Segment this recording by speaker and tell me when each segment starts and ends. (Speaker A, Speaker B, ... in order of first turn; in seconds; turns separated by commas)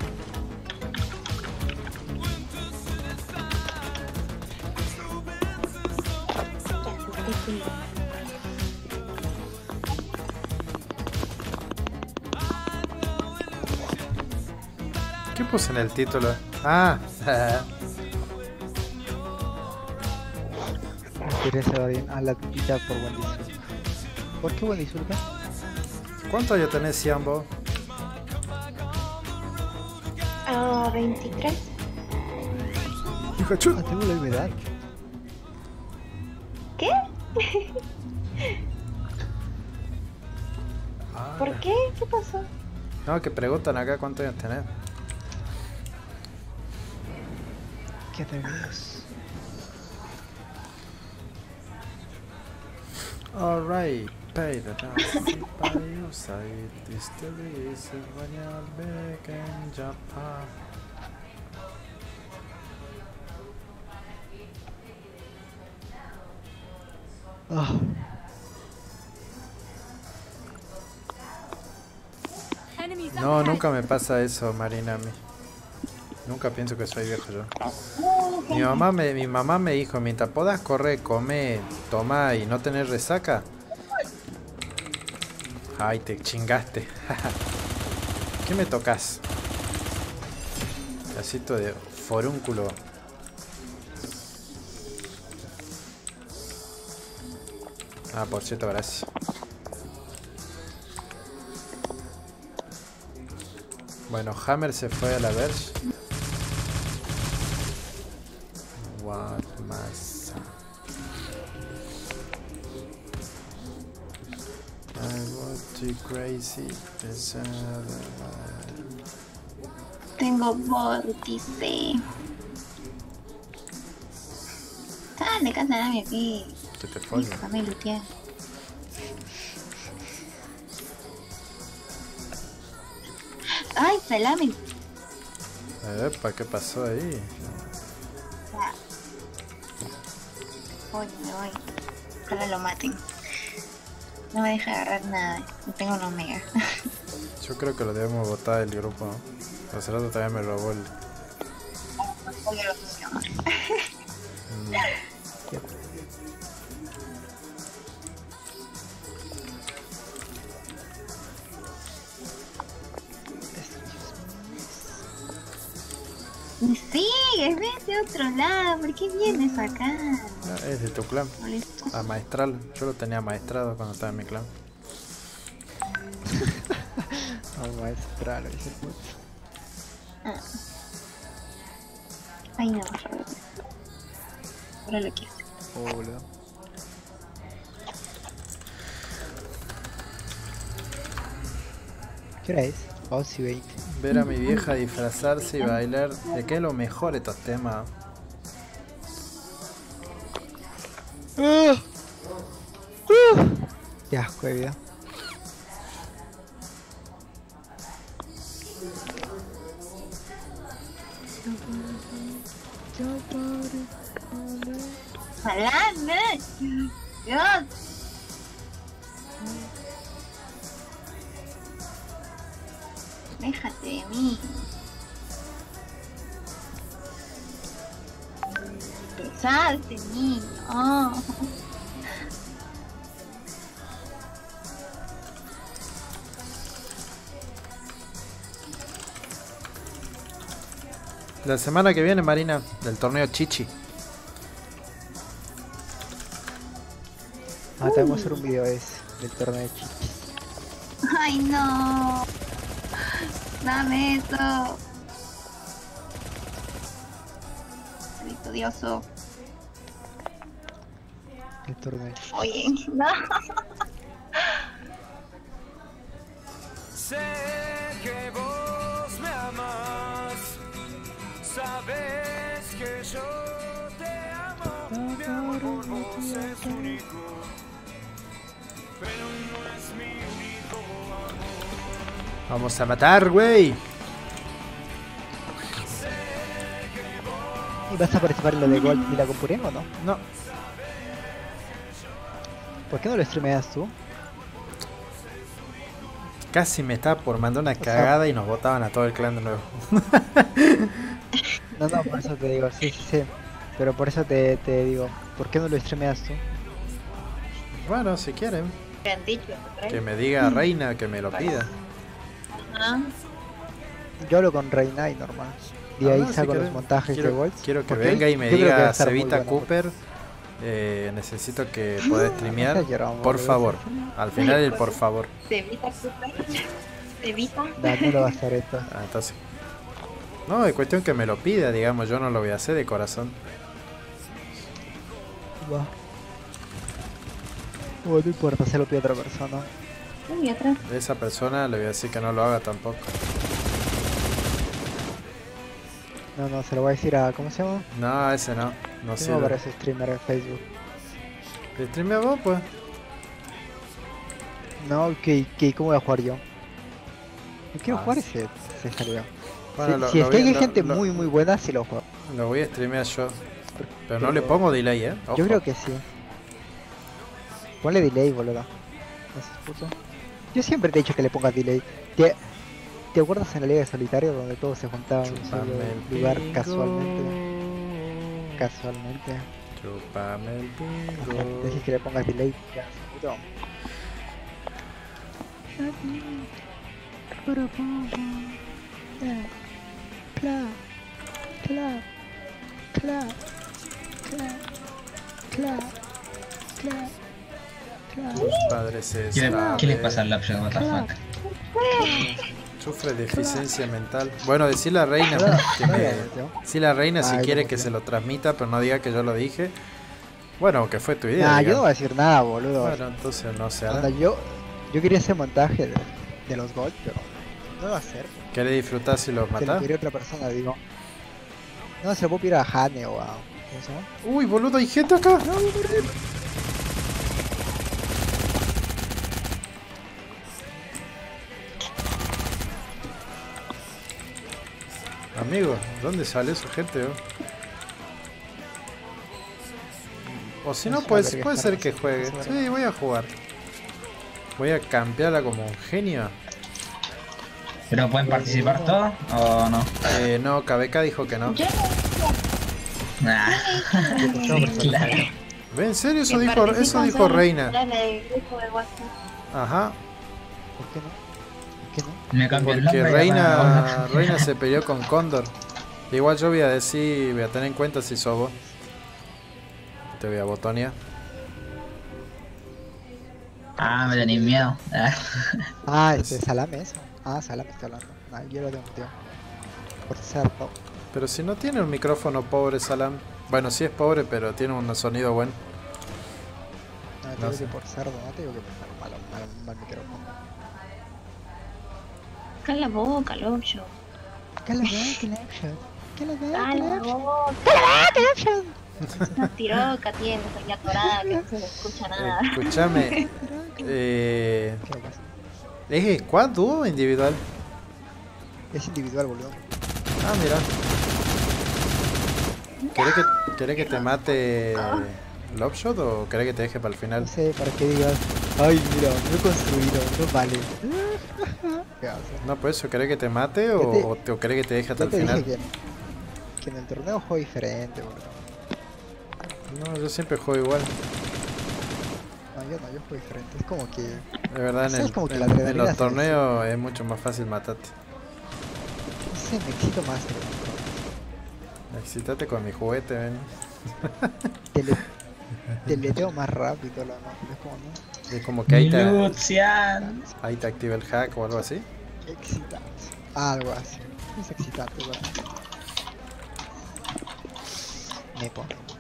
Speaker A: 6.8-7.7, Speaker B: 15.3-17.7, Speaker C: 21.2-23.6, Speaker C: 24.4-25.3, Speaker B: 26.3-27.5, Speaker A: 30.5-31.7, Speaker B: 33.4-33.9, Speaker C: 33.7-34.6, Speaker A: 36.8-37.8, Speaker B: 41.1-41.7, Speaker A: 41.4-42.5, Speaker B: 43.1-44.7, Speaker C: 48.1-49.1, Speaker B: 53.3-60.6, Speaker C: 67.5-68.1, Speaker B: 73.1-75.2, Speaker B: 76.2-77.5, Speaker A: 78.0-78.8, Speaker B: 78.5-83.5, Speaker B: 85.8-87.4, Speaker B: 88.4-89.3, Speaker B: 91.1-92.8, Speaker B: 98.1-99.1, Speaker B: 104.1-105.8, Speaker B: 108.8-110.5, Speaker B: 114.9-118.9, Speaker A: 120.2-122.0, Speaker A: 125.2-126.6, Speaker B: 126.8-127.4, Speaker A: 127.1-128.1, Speaker A: 133.8-134.6, Speaker B: 135.8-137.6, Speaker A: 140.9-141.6, Speaker A: 142.3-143.0, Speaker A: 144.3-146.5, Speaker B: 147.4-150.9, Speaker A: 152.0-153.9, Speaker B: 154.5-155.0, Speaker C: 155.5-156.0, Speaker C: 163.6-165.0, Speaker A: 166.6-170.4, Speaker B: 170.4-171.4, Speaker A: 171.4-172.1, Speaker B: 171.9-174.5, Speaker C: 176.3-179.2, Speaker A: 180.2-180.6, Speaker A: 182.6-183.5, Speaker A: 184.9-185.4, Speaker C: 185.7-186.2, Speaker C: 192.4-193.8, Speaker B: 193.9-197.9, Speaker A: 194.2-194.7, Speaker A: 195.3-195.8, Speaker C: 201.4-201.8, Speaker C: 203.1-204.8, Speaker A: 211.5-212.4, Speaker C: 212.9-215.0, Speaker A: 215.4-217.7, Speaker A: 223.4-224.7, Speaker A: 229.1-231.5, Speaker B: 241.4-243.7, Speaker C: 247.8-250.3, Speaker A: 247.8-248.4, Speaker A: 251.0-252.3, Speaker A: 253.1-254.8, Speaker A: 258.2-259.1, Speaker C: 261.7-262.2, Speaker A: 262.3-263.4, Speaker D: 266.9-270.6, Speaker D: 271.4-277.5, Speaker C: 274.9-277.0, Speaker D: 279.0-281.5, Speaker B: 282.5-283.9, Speaker B: 285.8-286.2, Speaker D: 285.9-287.6, Speaker C: 287.9-289.9, Speaker B: 290.0-290.2, Speaker C: 292.9-293.9, Speaker B: 296.5-301.2, Speaker C: 297.8-298.1, Speaker C: 301.8-306.4, Speaker B: 307.8-308.8, Speaker A: 309.1-310.7, Speaker B: 309.9-311.7, Speaker A: 311.3-311.7, Speaker A: 312.5-313.1, Speaker C: 314.2-319.7, Speaker B: 316.0-320.0, Speaker B: 320.6-325.3, Speaker C: 322.4-324.1, Speaker A: 324.4-325.0, Speaker A: 325.5-326.7, Speaker A: 327.2-328.3, Speaker C: 327.8-328.9, Speaker B: 328.9-329.4, Speaker B: 330.5-333.4, Speaker C: 335.6-335.9, Speaker C: 338.0-339.7, Speaker A: 340.3-340.8, Speaker B: 340.8-343.1, Speaker C: 346.4-347.9, Speaker B: 347.9-349.6, Speaker C: 349.1-350.6, Speaker B: 351.8-352.7, Speaker C: 354.8-356.4, Speaker C: 357.7-362.0, Speaker B: 357.9-358.3, Speaker B: 359.7-361.2, Speaker B: 362.2-363.4, Speaker C: 363.8-364.6, Speaker B: 364.1-365.6, Speaker C: 365.3-366.1, Speaker C: 367.8-368.7, Speaker C: 369.3-369.9, Speaker C: 370.5-372.4, Speaker C: 373.1-377.4, Speaker B: 375.2-378.6, Speaker C: 378.6-379.5, Speaker B: 379.8-381.8, Speaker C: 381.2-383.5, Speaker C: 385.8-386.5, Speaker C: 387.4-388.6, Speaker C: 389.2-389.5, Speaker C: 390.4-390.8, Speaker C: 391.6-392.1, Speaker C: 392.9-393.4, Speaker C: 394.3-394.6, Speaker C: 395.5-395.9, Speaker C: 396.8-397.1, Speaker C: 398.1-398.6, Speaker A: 398.3-398.8, Speaker B: 398.3-400.3, Speaker E: 399.3-401.1, Speaker C: 399.4-399.9, Speaker C: 400.8-401.1, Speaker A: 401.7-402.4, Speaker C: 402.0-402.5, Speaker B: 402.8-409.8, Speaker C: 403.3-403.6, Speaker C: 405.3-406.6, Speaker C: 407.2-407.9, Speaker B: 410.6-411.8, Speaker C: 411.4-413.0, Speaker B: 412.8-414.1, Speaker C: 413.9-418.5, Speaker B: 418.5-419.9, Speaker C: 419.6-420.8, Speaker C: 422.0-424.1, Speaker B: 424.2-425.5, Speaker C: 425.4-426.1, Speaker B: 435.4-437.2, Speaker B: 440.2-443.4, Speaker C: 440.9-442.7, Speaker B: 444.6-446.4, Speaker E: 447.9-450.1, Speaker C: 448.2-449.0, Speaker B: 450.1-451.6, Speaker A: 451.5-452.4, Speaker E: 453.2-455.3, Speaker A: 453.5-455.2, Speaker C: 454.1-455.3, Speaker B: 455.7-457.8, Speaker A: 456.3-459.1, Speaker B: 459.5-460.0, Speaker C: 460.8-461.2, Speaker C: 461.8-462.8, Speaker E: 462.3-464.5, Speaker B: 462.6-465.5, Speaker B: 466.1-468.6, Speaker B: 470.1-471.0, Speaker E: 473.8-475.7, Speaker C: 474.2-474.6, Speaker C: 475.9-479.1, Speaker B: 476.1-476.4, Speaker C: 480.1-480.7, Speaker B: 481.1-485.6, Speaker C: 487.2-490.3, Speaker B: 487.4-487.7, Speaker A: 492.6-493.9, Speaker C: 494.6-497.1, Speaker A: 496.6-498.3, Speaker C: 497.7-499.4, Speaker B: 499.0-499.5, Speaker A: 499.4-503.2, Speaker C: 501.0-501.8, Speaker B: 502.1-504.9, Speaker C: 502.9-504.0, Speaker C: 504.8-505.3, Speaker B: 505.9-507.5, Speaker C: 508.7-509.6, Speaker B: 510.2-510.7, Speaker A: 512.8-514.2, Speaker B: 513.0-517.3, Speaker A: 514.7-515.1, Speaker C: 517.2-522.4, Speaker B: 522.4-525.5, Speaker C: 523.8-524.1, Speaker C: 525.0-525.7, Speaker C: 526.6-528.4, Speaker B: 529.7-531.0, Speaker C: 532.5-534.3, Speaker B: 534.5-537.9, Speaker C: 534.9-536.4, Speaker C: 539.3-541.1, Speaker B: 541.9-544.5, Speaker C: 544.7-545.1, Speaker B: 545.7-546.2, Speaker C: 545.9-548.0, Speaker B: 548.3-549.4, Speaker E: 548.7-550.2, Speaker C: 550.0-550.4, Speaker B: 550.4-551.9, Speaker C: 552.2-555.4, Speaker C: 558.4-558.8